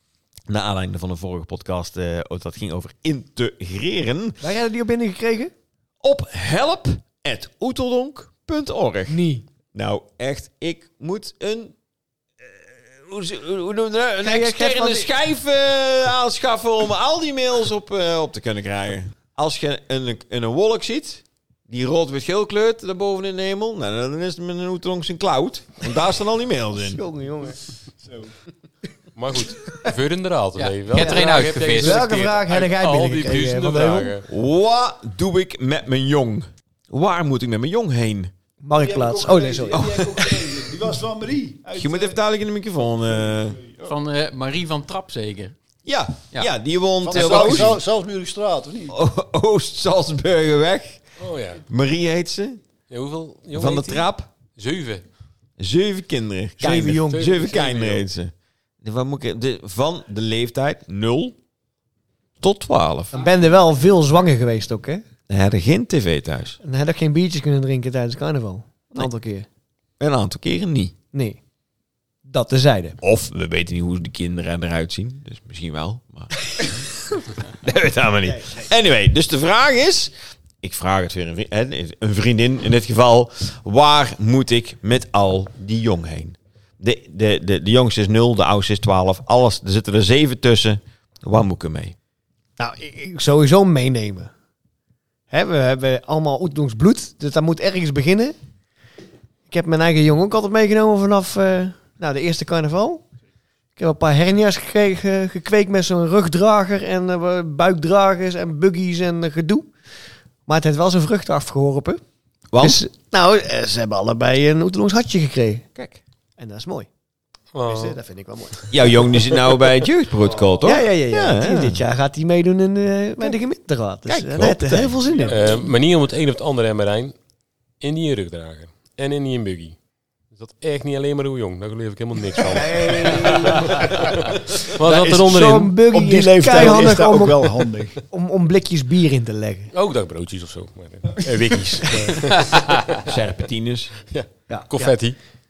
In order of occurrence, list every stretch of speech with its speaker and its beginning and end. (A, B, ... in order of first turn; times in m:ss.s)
0:00.5-0:04.4 A
0:04.4-0:05.5 B
0:06.0-0:11.7 A
0:09.1-0:09.4 B
0:12.4-0:27.0 A
0:14.2-0:15.1 B
0:26.8-0:27.6 B
0:28.0-0:28.3 C
0:29.1-0:34.2 D
0:30.6-0:32.0 E
0:31.0-0:34.2 B
0:34.2-0:38.3 A
0:38.6-0:39.9 B
0:38.8-0:42.2 C
0:39.7-0:40.6 A
0:41.7-0:43.6 A
0:43.5-0:43.9 C
0:43.8-0:45.6 E
0:45.8-0:47.8 A
0:47.0-0:49.0 C
0:47.4-0:47.7 B
0:48.9-0:51.0 A
0:51.2-0:51.6 D
0:51.6-0:52.6 A
0:52.9-0:55.0 D
0:53.5-0:54.3 A
0:55.6-0:58.3 A
0:56.6-0:57.5 B
0:56.8-0:58.0 D
0:58.8-1:01.4 A
1:02.4-1:03.2 A
1:03.1-1:05.0 B
1:05.3-1:06.6 A
1:06.6-1:09.4 B
1:10.0-1:10.9 A
1:11.1-1:11.4 B
1:12.3-1:13.0 B
1:13.0-1:31.9 A
1:18.2-1:18.7 B
1:32.6-1:34.3 B
1:35.3-1:38.3 B
1:39.5-1:43.0 B
1:43.8-1:49.7 B
1:50.5-1:52.0 B
1:52.5-1:52.8 A
1:52.6-1:55.6 B
1:56.4-1:56.9 B
1:57.5-1:58.0 D
1:57.6-1:59.1 B
1:58.7-2:01.8 A
2:00.6-2:05.6 B
2:04.1-2:05.0 A
2:05.2-2:05.5 C
2:05.3-2:07.1 D
2:07.8-2:09.8 D
2:10.3-2:15.8 D
2:12.4-2:14.0 B
2:14.9-2:15.3 C
2:15.0-2:19.7 B
2:15.9-2:18.0 C
2:19.7-2:23.0 D
2:23.0-2:23.9 A
2:24.1-2:25.2 D
2:24.5-2:25.0 B